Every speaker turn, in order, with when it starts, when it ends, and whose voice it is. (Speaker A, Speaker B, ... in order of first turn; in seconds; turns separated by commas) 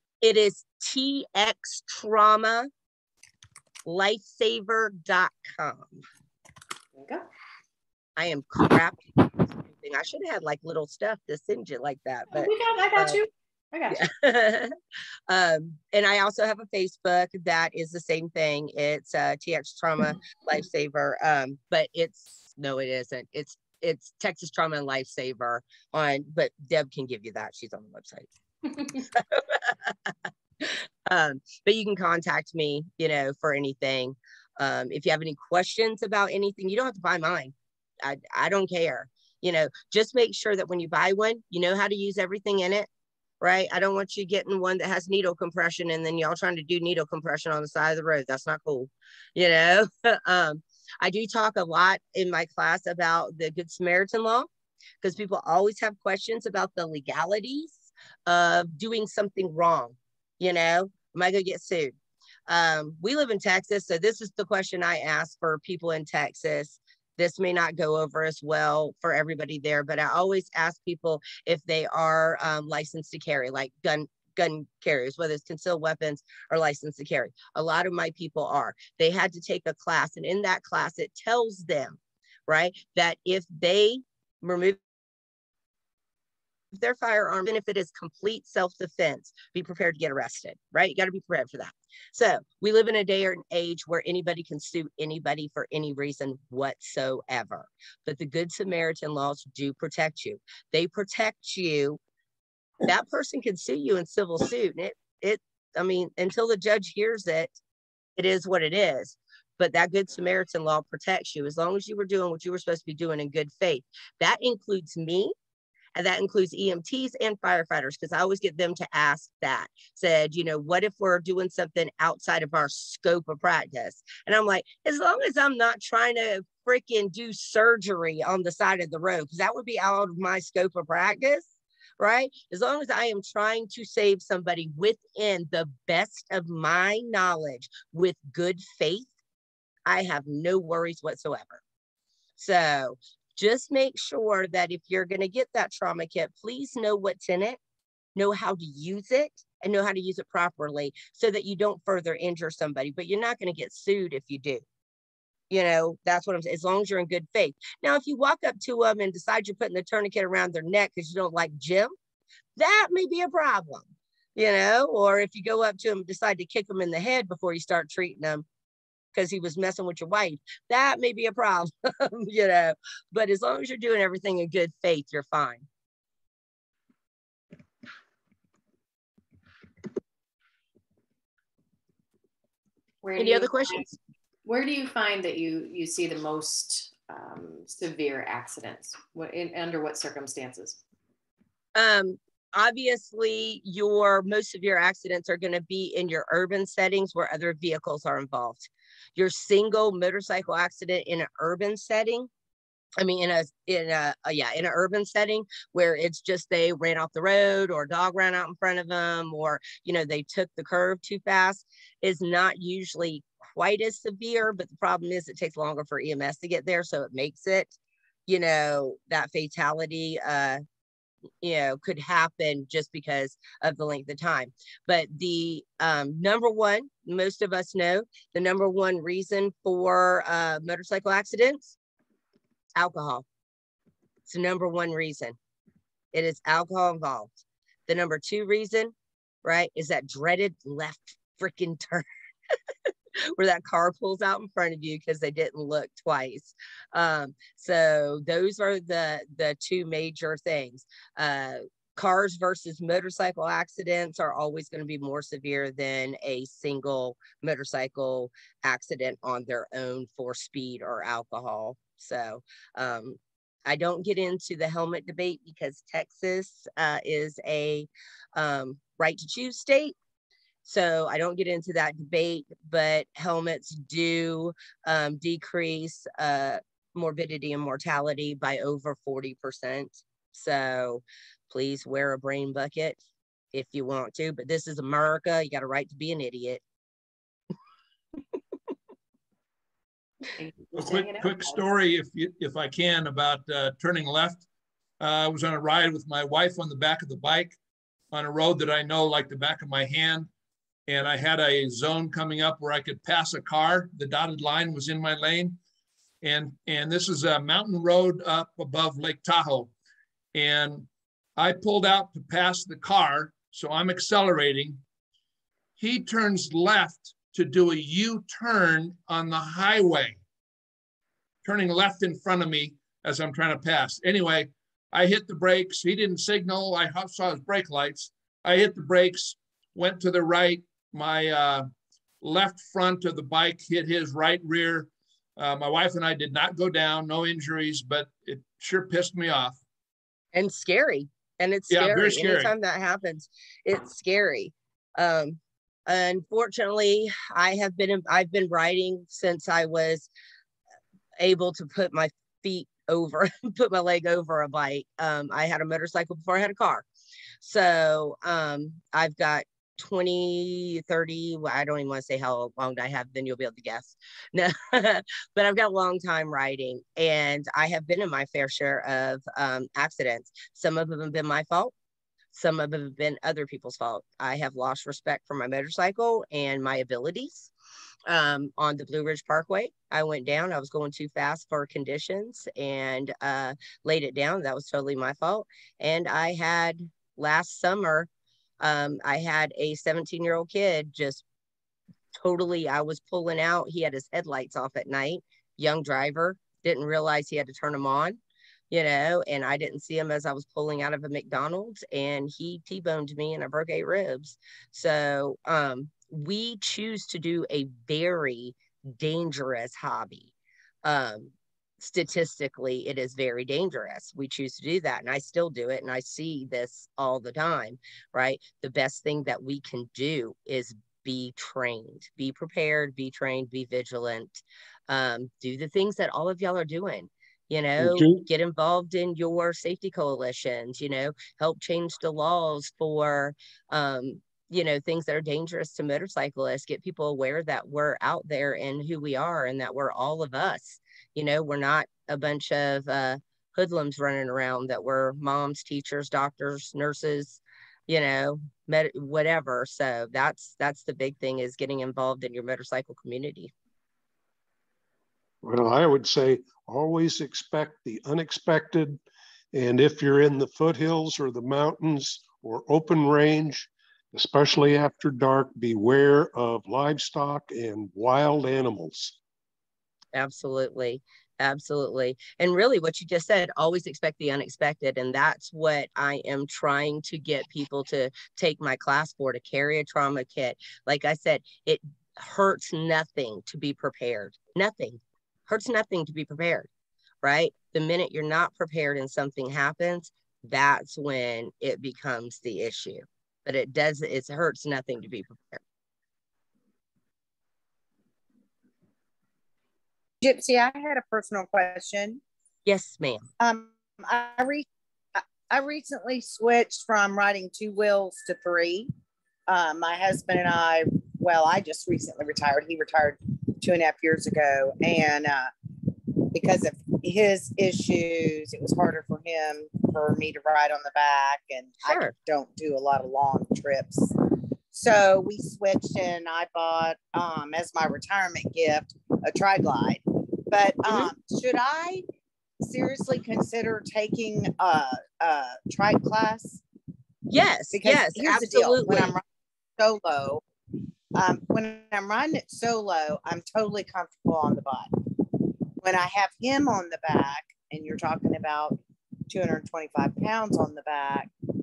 Speaker A: 0.2-2.7, Speaker A: 3.8-6.0, Speaker B: 6.9-7.2, Speaker A: 8.2-13.2, Speaker B: 12.3-14.0, Speaker A: 13.9-14.7, Speaker A: 15.3-28.3, Speaker A: 29.0-42.9, Speaker A: 43.4-54.5, Speaker A: 55.0-61.9, Speaker A: 62.5-84.8, Speaker A: 86.7-102.0, Speaker A: 102.8-107.6, Speaker A: 108.2-115.3, Speaker A: 115.9-139.1, Speaker A: 139.8-141.6, Speaker A: 142.4-147.6, Speaker A: 148.1-154.6, Speaker A: 155.5-161.9, Speaker A: 162.6-168.4, Speaker A: 169.1-175.7, Speaker B: 183.0-183.9, Speaker A: 183.2-183.9, Speaker B: 184.4-190.8, Speaker A: 191.7-202.3, Speaker A: 203.0-217.7, Speaker A: 218.3-220.6, Speaker A: 221.4-231.8, Speaker A: 232.8-233.2, Speaker A: 234.2-235.3, Speaker A: 236.1-242.1, Speaker A: 243.3-269.9, Speaker A: 270.6-283.0, Speaker A: 283.5-286.6, Speaker B: 290.4-291.6, Speaker C: 290.7-294.4, Speaker C: 295.0-297.6, Speaker C: 298.1-300.3, Speaker C: 300.9-305.6, Speaker C: 306.2-309.7, Speaker C: 310.3-314.8, Speaker C: 315.8-320.2, Speaker C: 321.4-331.7, Speaker C: 332.2-339.6, Speaker A: 340.3-350.1, Speaker C: 341.7-342.5, Speaker A: 351.2-356.9, Speaker A: 357.4-371.7, Speaker A: 372.3-377.5, Speaker A: 378.1-388.1, Speaker A: 388.6-391.2, Speaker A: 392.1-398.2, Speaker A: 398.7-410.3, Speaker A: 410.8-453.5, Speaker D: 427.8-428.2, Speaker D: 455.4-459.0, Speaker D: 459.5-469.1, Speaker A: 470.1-486.7, Speaker A: 487.2-495.6, Speaker E: 500.2-502.2, Speaker A: 502.6-503.2, Speaker E: 503.4-504.6, Speaker E: 505.1-508.9, Speaker E: 509.5-515.5, Speaker E: 516.3-524.1, Speaker A: 521.8-522.1, Speaker E: 524.7-532.0, Speaker E: 532.6-536.6, Speaker A: 537.3-539.1, Speaker E: 537.7-539.2, Speaker E: 539.8-540.4, Speaker E: 541.1-544.9, Speaker E: 545.8-551.3